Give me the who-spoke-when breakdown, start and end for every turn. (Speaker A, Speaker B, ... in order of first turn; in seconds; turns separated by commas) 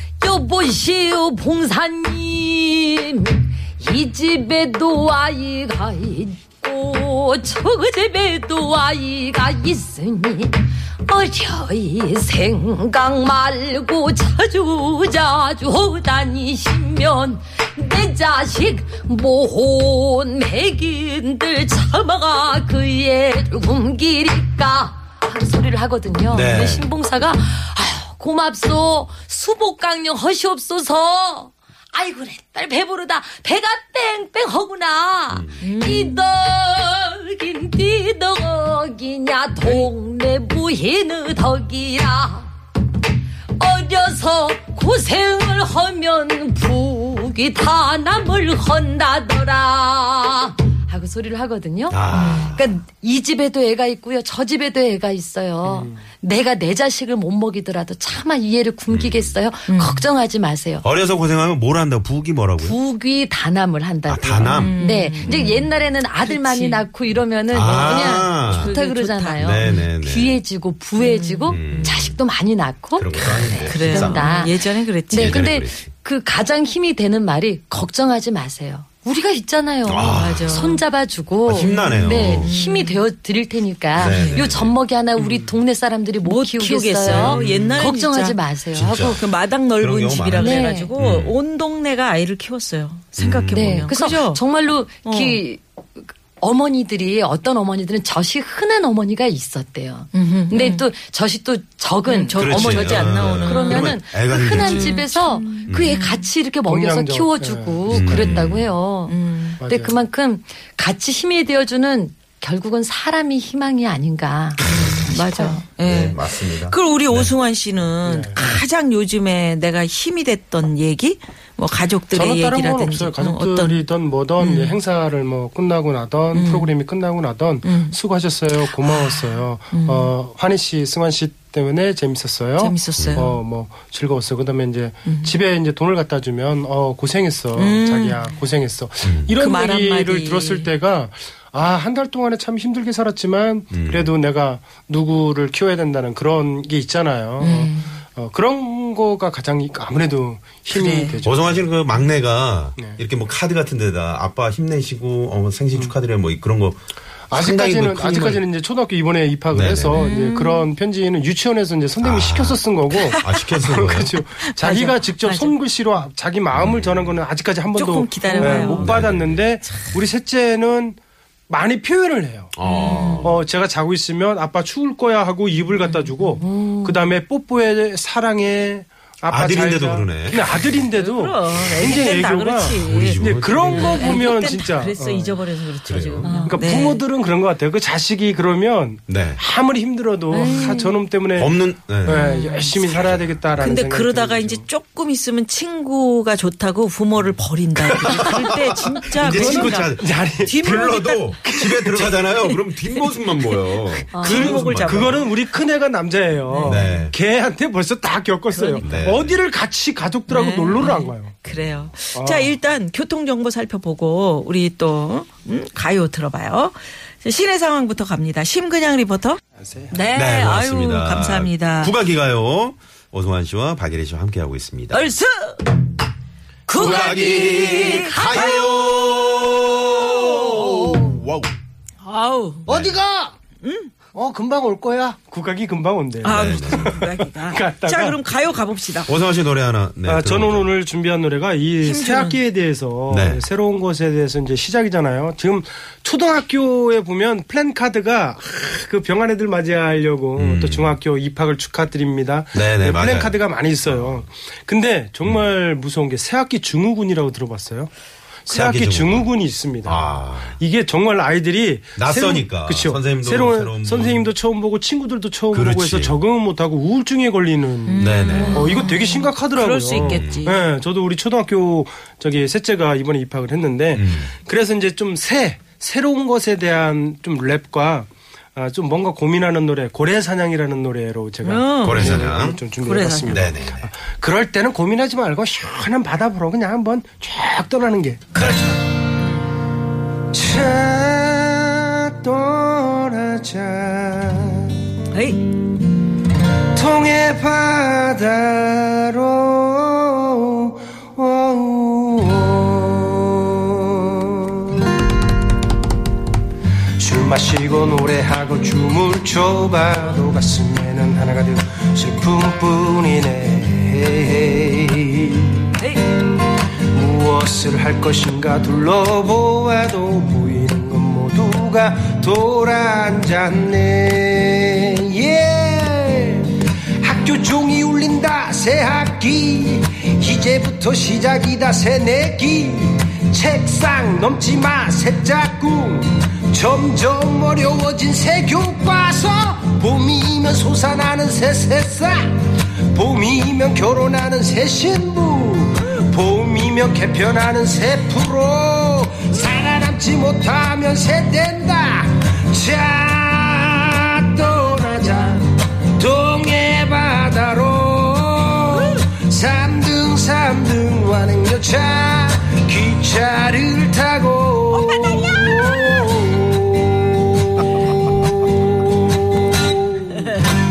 Speaker A: 0.2-42.5, Speaker B: 26.3-26.9, Speaker B: 35.3-35.6, Speaker C: 35.6-36.2, Speaker C: 39.6-39.9, Speaker A: 43.6-60.9, Speaker B: 51.9-52.7, Speaker C: 52.1-52.5, Speaker D: 55.7-56.0, Speaker B: 58.9-59.4, Speaker C: 59.7-60.1, Speaker B: 60.8-62.8, Speaker A: 62.6-89.2, Speaker B: 64.1-65.7, Speaker C: 64.5-66.8, Speaker B: 67.5-68.8, Speaker C: 67.5-69.8, Speaker B: 69.4-70.4, Speaker C: 71.0-72.0, Speaker B: 71.5-72.2, Speaker B: 73.0-74.3, Speaker C: 73.2-75.5, Speaker B: 75.1-75.9, Speaker B: 79.9-80.7, Speaker C: 80.1-80.8, Speaker B: 81.5-82.5, Speaker C: 81.6-83.0, Speaker B: 84.0-84.8, Speaker C: 84.0-84.5, Speaker D: 85.2-85.5, Speaker C: 86.2-94.4, Speaker B: 87.1-87.7, Speaker B: 88.7-91.4, Speaker A: 90.4-90.9, Speaker B: 93.2-93.9, Speaker A: 93.5-115.6, Speaker C: 95.0-95.4, Speaker C: 100.1-100.8, Speaker C: 102.1-106.3, Speaker B: 102.4-105.1, Speaker B: 105.7-106.0, Speaker D: 106.7-108.5, Speaker B: 107.9-108.7, Speaker C: 109.1-109.6, Speaker D: 109.6-110.0, Speaker B: 114.6-115.1, Speaker C: 114.6-123.8, Speaker B: 115.8-117.3, Speaker D: 118.0-118.4, Speaker D: 122.1-151.7, Speaker C: 124.4-124.8, Speaker C: 126.3-126.7, Speaker C: 127.6-128.0, Speaker C: 128.9-130.1, Speaker C: 132.6-133.3, Speaker B: 133.0-133.4, Speaker C: 135.1-135.3, Speaker C: 137.6-138.4, Speaker B: 139.0-139.3, Speaker C: 139.4-140.7, Speaker B: 143.7-144.1, Speaker C: 147.4-148.0, Speaker C: 150.7-151.2, Speaker B: 151.2-158.4, Speaker D: 157.3-171.0, Speaker B: 159.5-160.0, Speaker C: 159.9-160.7, Speaker B: 162.0-162.6, Speaker C: 163.0-163.4, Speaker B: 163.2-164.2, Speaker C: 164.6-165.6, Speaker B: 166.5-167.2, Speaker C: 167.7-169.8, Speaker A: 168.4-168.7, Speaker B: 168.7-169.4, Speaker D: 171.5-172.5, Speaker B: 172.6-173.4, Speaker C: 172.6-173.3, Speaker D: 173.2-185.5, Speaker C: 175.8-176.3, Speaker A: 176.4-177.0, Speaker B: 179.3-180.8, Speaker C: 180.8-187.0, Speaker B: 182.8-184.3, Speaker B: 185.9-186.5, Speaker A: 186.3-186.5, Speaker D: 186.3-194.7, Speaker B: 189.1-189.4, Speaker C: 190.3-190.9, Speaker A: 190.3-190.9, Speaker B: 191.4-193.6, Speaker C: 192.1-192.8, Speaker C: 193.6-201.5, Speaker B: 198.0-205.2, Speaker D: 199.2-200.9, Speaker D: 201.4-202.2, Speaker C: 202.1-205.4, Speaker A: 204.1-204.7, Speaker D: 204.2-211.3, Speaker C: 206.5-206.9, Speaker B: 206.6-207.2, Speaker C: 208.5-208.9, Speaker B: 208.8-209.4, Speaker C: 210.3-219.4, Speaker D: 212.1-212.6, Speaker D: 219.6-220.0, Speaker C: 219.9-221.9, Speaker B: 220.1-225.0, Speaker C: 224.9-225.7, Speaker C: 226.7-228.6, Speaker A: 226.7-229.0, Speaker B: 226.8-231.5, Speaker C: 232.0-232.7, Speaker D: 232.7-233.3, Speaker B: 232.7-233.0, Speaker C: 233.6-233.9, Speaker D: 234.2-238.2, Speaker C: 236.2-239.1, Speaker B: 236.2-237.0, Speaker B: 239.1-240.7, Speaker D: 240.1-257.9, Speaker C: 241.8-242.4, Speaker B: 243.1-243.4, Speaker B: 250.4-251.0, Speaker B: 252.5-254.2, Speaker D: 258.5-288.2, Speaker B: 258.5-259.3, Speaker B: 259.8-260.6, Speaker B: 262.0-264.3, Speaker B: 265.5-266.2, Speaker C: 267.9-270.6, Speaker B: 268.0-268.6, Speaker A: 268.3-268.9, Speaker B: 270.0-270.5, Speaker B: 273.9-274.3, Speaker C: 281.4-283.5, Speaker B: 281.8-282.6, Speaker B: 283.3-283.9, Speaker C: 288.3-289.4, Speaker D: 290.3-294.8, Speaker C: 295.1-295.5, Speaker D: 296.7-304.8, Speaker D: 307.0-315.6, Speaker C: 315.8-316.1, Speaker D: 316.9-342.3, Speaker D: 342.9-367.0, Speaker C: 364.7-366.1